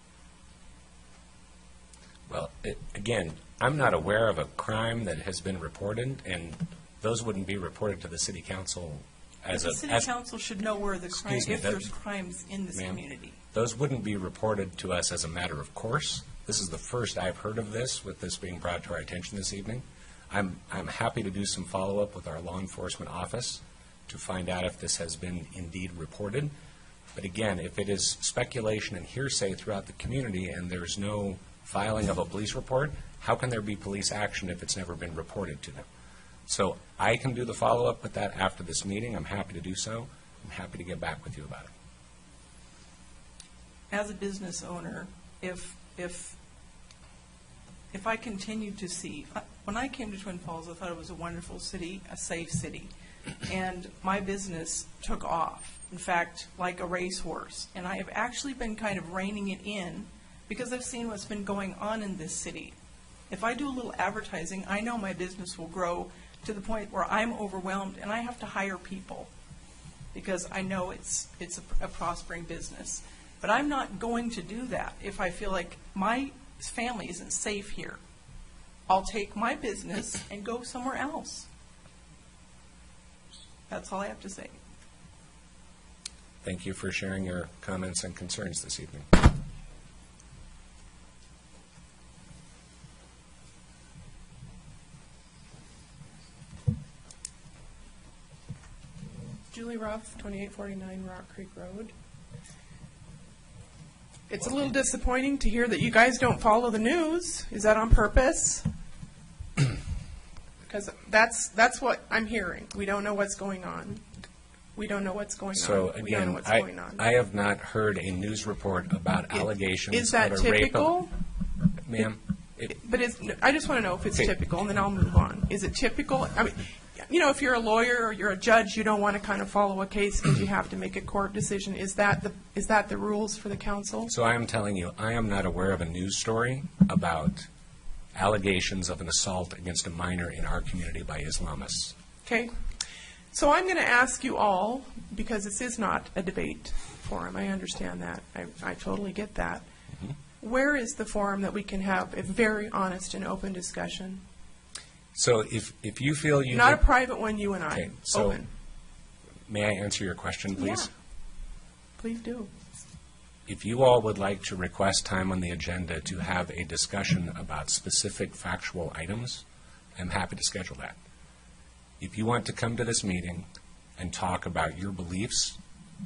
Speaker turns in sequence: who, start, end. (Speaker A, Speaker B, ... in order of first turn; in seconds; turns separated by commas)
Speaker A: 2.3-10.1, Speaker B: 9.5-13.4, Speaker A: 11.2-11.9, Speaker A: 12.7-26.5, Speaker A: 27.1-35.8, Speaker A: 36.5-41.7, Speaker B: 43.9-46.4, Speaker B: 47.9-52.9, Speaker B: 53.4-62.8, Speaker B: 63.3-69.3, Speaker B: 70.1-78.0, Speaker B: 78.9-81.5, Speaker B: 83.7-84.6, Speaker A: 86.4-89.2, Speaker C: 99.5-101.9, Speaker C: 104.3-108.6, Speaker C: 110.7-114.0, Speaker C: 114.8-117.0, Speaker A: 115.5-121.0, Speaker C: 119.3-121.1, Speaker A: 121.8-122.8, Speaker C: 122.7-134.1, Speaker A: 134.1-137.5, Speaker A: 138.1-141.9, Speaker C: 142.2-142.6, Speaker C: 143.3-149.7, Speaker C: 150.4-154.2, Speaker A: 155.2-156.8, Speaker C: 156.5-158.5, Speaker A: 157.7-158.4, Speaker A: 159.5-160.9, Speaker C: 160.6-160.9, Speaker C: 162.0-162.5, Speaker A: 163.5-169.4, Speaker A: 169.9-170.9, Speaker A: 172.0-173.5, Speaker A: 174.0-175.6